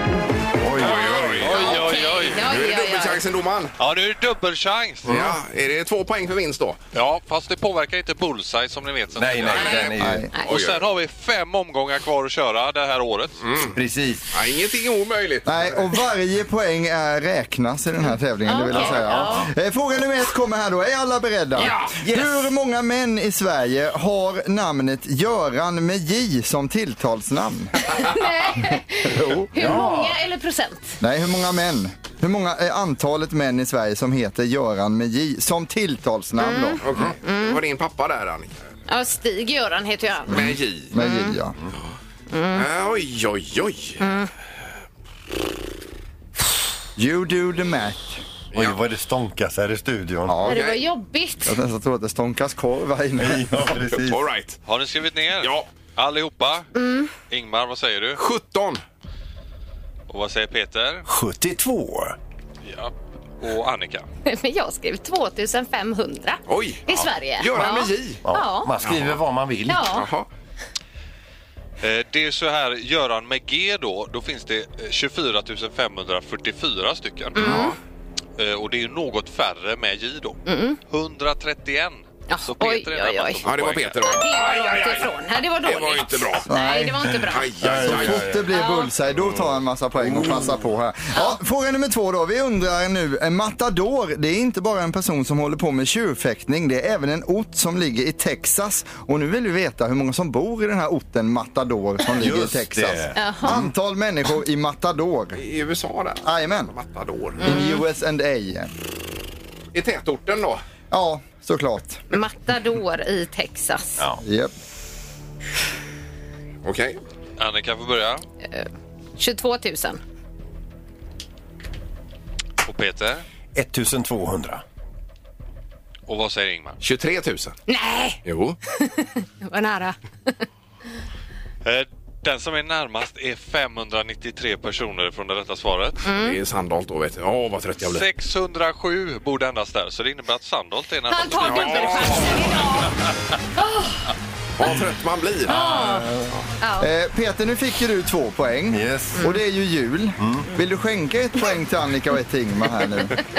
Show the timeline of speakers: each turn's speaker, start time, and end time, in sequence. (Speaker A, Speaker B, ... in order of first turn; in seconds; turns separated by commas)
Speaker A: 0.6-1.6, Speaker B: 0.8-1.8, Speaker C: 1.1-2.5, Speaker D: 1.5-3.2, Speaker B: 2.3-3.7, Speaker C: 3.8-5.2, Speaker A: 5.0-5.3, Speaker B: 5.0-6.8, Speaker C: 6.9-13.4, Speaker A: 9.1-10.3, Speaker D: 9.6-9.8, Speaker E: 9.9-10.3, Speaker B: 10.5-10.9, Speaker B: 13.4-13.8, Speaker A: 13.7-14.3, Speaker B: 14.3-15.8, Speaker E: 15.4-27.7, Speaker D: 18.4-19.5, Speaker B: 21.6-21.9, Speaker A: 22.0-22.4, Speaker D: 27.9-31.0, Speaker E: 29.0-29.9, Speaker A: 29.6-30.2, Speaker E: 31.0-37.1, Speaker D: 36.4-37.6, Speaker B: 36.8-38.5, Speaker D: 38.9-40.3, Speaker B: 40.3-40.9, Speaker E: 40.3-41.5, Speaker D: 41.0-41.4, Speaker D: 42.3-42.6, Speaker B: 42.5-44.0, Speaker D: 44.0-44.3, Speaker E: 47.0-48.2, Speaker B: 48.5-48.8, Speaker A: 48.5-50.5, Speaker E: 50.3-50.6, Speaker B: 50.4-50.8, Speaker D: 50.5-51.5, Speaker E: 51.5-54.1, Speaker A: 53.2-54.2, Speaker B: 54.0-54.6, Speaker C: 54.6-56.6, Speaker B: 55.4-55.6, Speaker D: 56.7-57.1, Speaker C: 57.3-58.2, Speaker B: 58.2-58.8, Speaker C: 60.1-61.0, Speaker A: 61.0-62.2, Speaker C: 62.6-64.0, Speaker D: 64.2-68.7, Speaker B: 66.5-66.8, Speaker B: 67.4-68.2, Speaker A: 68.2-69.9, Speaker B: 68.8-69.1, Speaker D: 69.7-70.1, Speaker B: 69.9-70.3, Speaker C: 71.8-77.7, Speaker D: 77.3-77.7, Speaker B: 77.3-77.7, Speaker C: 78.4-84.1, Speaker D: 80.5-80.8, Speaker D: 82.3-83.4, Speaker B: 83.4-86.5, Speaker D: 84.0-87.5, Speaker E: 86.5-87.2, Speaker B: 87.3-88.3, Speaker A: 87.6-88.5, Speaker E: 87.7-105.4, Speaker D: 88.5-88.9, Speaker A: 89.2-89.5, Speaker A: 90.0-90.6, Speaker D: 91.1-91.4, Speaker A: 102.1-103.7, Speaker D: 103.2-103.5, Speaker B: 105.3-107.5, Speaker E: 106.2-106.7, Speaker E: 107.4-108.7, Speaker D: 107.4-107.8, Speaker B: 109.7-110.6, Speaker E: 110.9-112.0, Speaker D: 112.1-114.0, Speaker E: 114.2-114.5, Speaker B: 116.6-117.0, Speaker C: 117.4-118.2, Speaker D: 118.5-120.0, Speaker C: 122.6-123.2, Speaker A: 123.5-124.6, Speaker C: 126.1-126.8, Speaker B: 126.8-127.6, Speaker D: 127.7-128.2, Speaker B: 128.2-128.6, Speaker D: 128.7-130.4, Speaker C: 131.6-136.0, Speaker D: 136.0-136.4, Speaker B: 136.2-138.0, Speaker C: 137.9-142.7, Speaker D: 141.1-142.9, Speaker B: 141.4-142.5, Speaker B: 144.6-145.5, Speaker A: 145.5-146.3, Speaker D: 145.5-146.1, Speaker D: 146.6-146.9, Speaker E: 146.8-153.2, Speaker A: 148.7-149.2, Speaker A: 150.2-150.5